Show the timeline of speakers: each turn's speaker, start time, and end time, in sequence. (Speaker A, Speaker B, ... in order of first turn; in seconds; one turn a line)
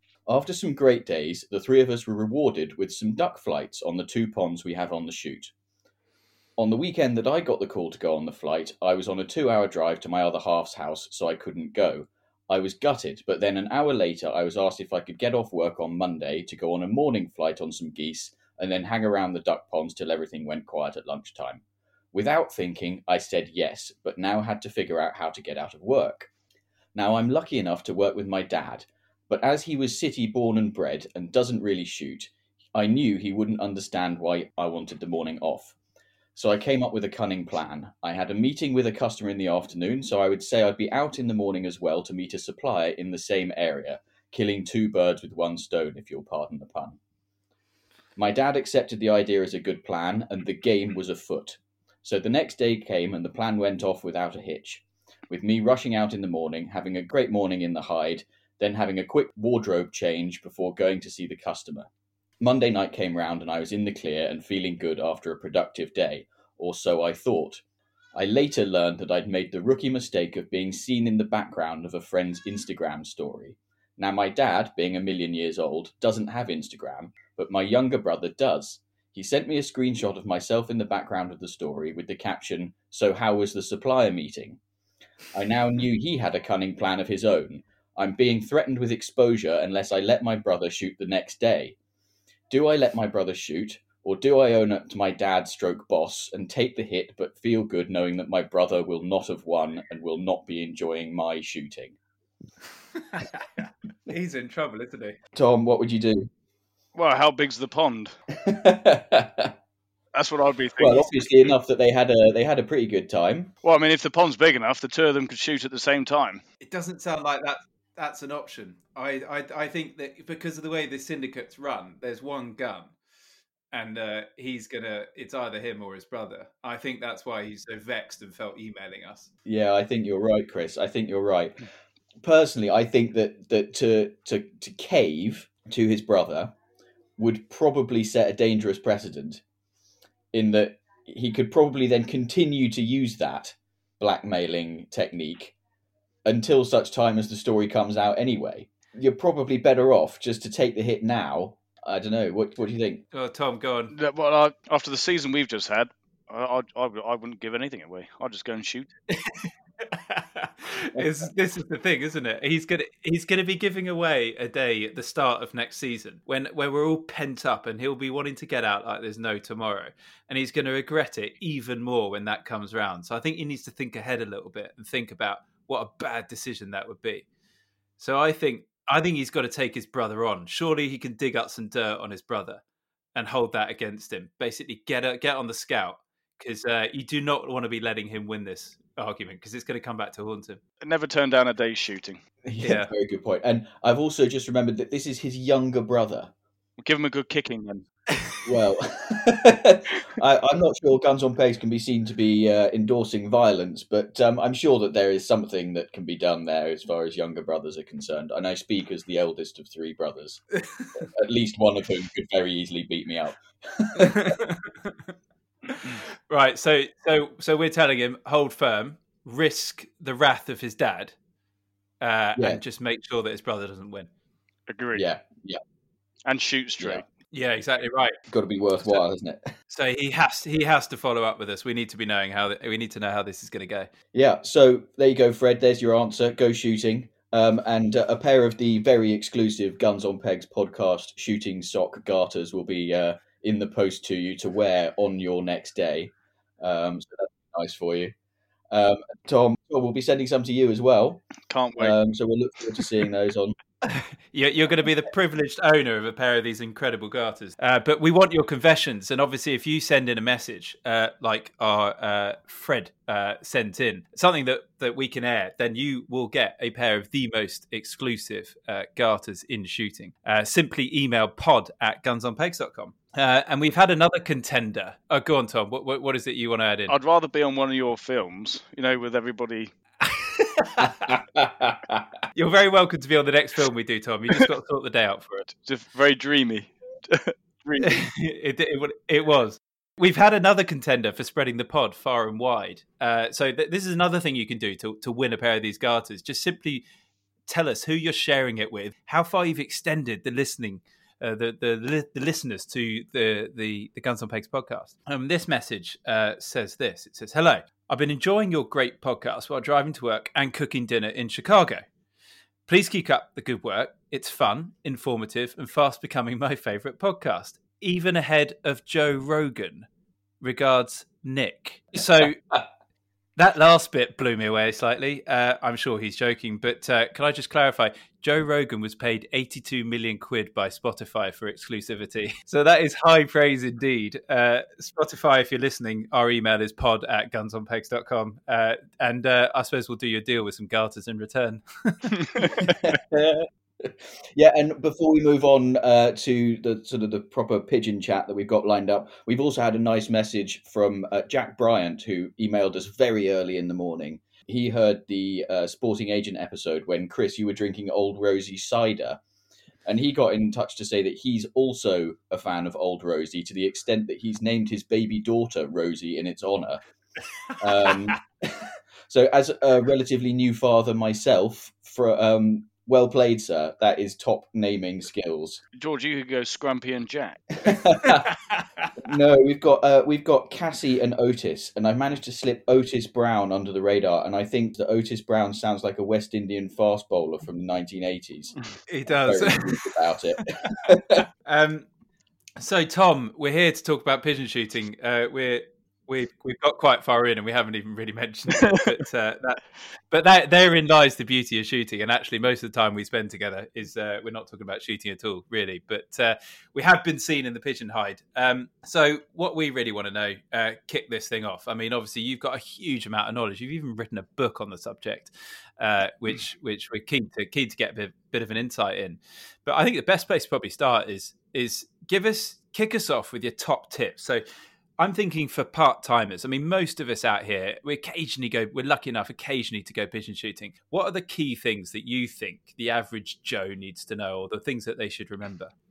Speaker A: 0.3-5.5
Speaker A: 6.6-26.3
Speaker A: 26.9-35.8
Speaker A: 36.4-47.0
Speaker A: 48.2-61.9
Speaker A: 62.4-67.6
Speaker A: 68.2-84.6
Speaker A: 85.3-91.8
Speaker A: 92.5-102.0
Speaker B: 103.0-103.4
Speaker B: 104.1-105.2
Speaker A: 105.3-106.3
Speaker C: 107.0-108.2
Speaker A: 108.3-109.5
Speaker C: 110.1-111.3
Speaker A: 110.8-113.5
Speaker C: 113.6-116.4
Speaker B: 116.6-122.9
Speaker B: 123.7-129.3
Speaker A: 129.4-131.6
Speaker A: 132.2-136.5
Speaker A: 137.2-139.4
Speaker A: 140.3-145.6
Speaker A: 146.2-153.0
Speaker B: 153.1-153.9
Speaker C: 153.9-158.9
Speaker B: 159.2-177.3
Speaker B: 178.0-182.6
Speaker B: 183.2-190.6
Speaker C: 190.8-192.2
Speaker A: 192.4-196.3
Speaker B: 192.6-192.9
Speaker C: 196.8-197.9
Speaker A: 198.4-210.4
Speaker A: 211.0-214.4
Speaker B: 213.9-215.1
Speaker B: 215.7-221.2
Speaker B: 222.0-224.1
Speaker C: 224.7-225.1
Speaker A: 224.9-225.6
Speaker C: 226.3-227.0
Speaker B: 227.3-228.2
Speaker A: 228.3-229.5
Speaker B: 229.7-233.9
Speaker A: 234.1-248.1
Speaker A: 248.7-251.2
Speaker C: 251.5-252.0
Speaker A: 251.8-253.6
Speaker B: 253.8-277.0
Speaker C: 276.9-279.7
Speaker B: 280.0-281.1
Speaker A: 281.4-282.0
Speaker B: 282.3-285.4
Speaker C: 285.5-288.1
Speaker B: 287.8-296.8
Speaker B: 297.5-311.9
Speaker B: 312.7-319.9
Speaker B: 320.4-322.4
Speaker B: 323.4-342.6
Speaker A: 342.7-359.2
Speaker A: 359.9-366.8
Speaker A: 367.6-375.6
Speaker C: 375.8-377.7
Speaker A: 377.6-378.4
Speaker B: 378.5-378.9
Speaker A: 379.0-388.6
Speaker B: 388.9-389.9
Speaker A: 389.2-391.2
Speaker B: 391.4-391.9
Speaker B: 392.6-424.4
Speaker B: 425.0-435.7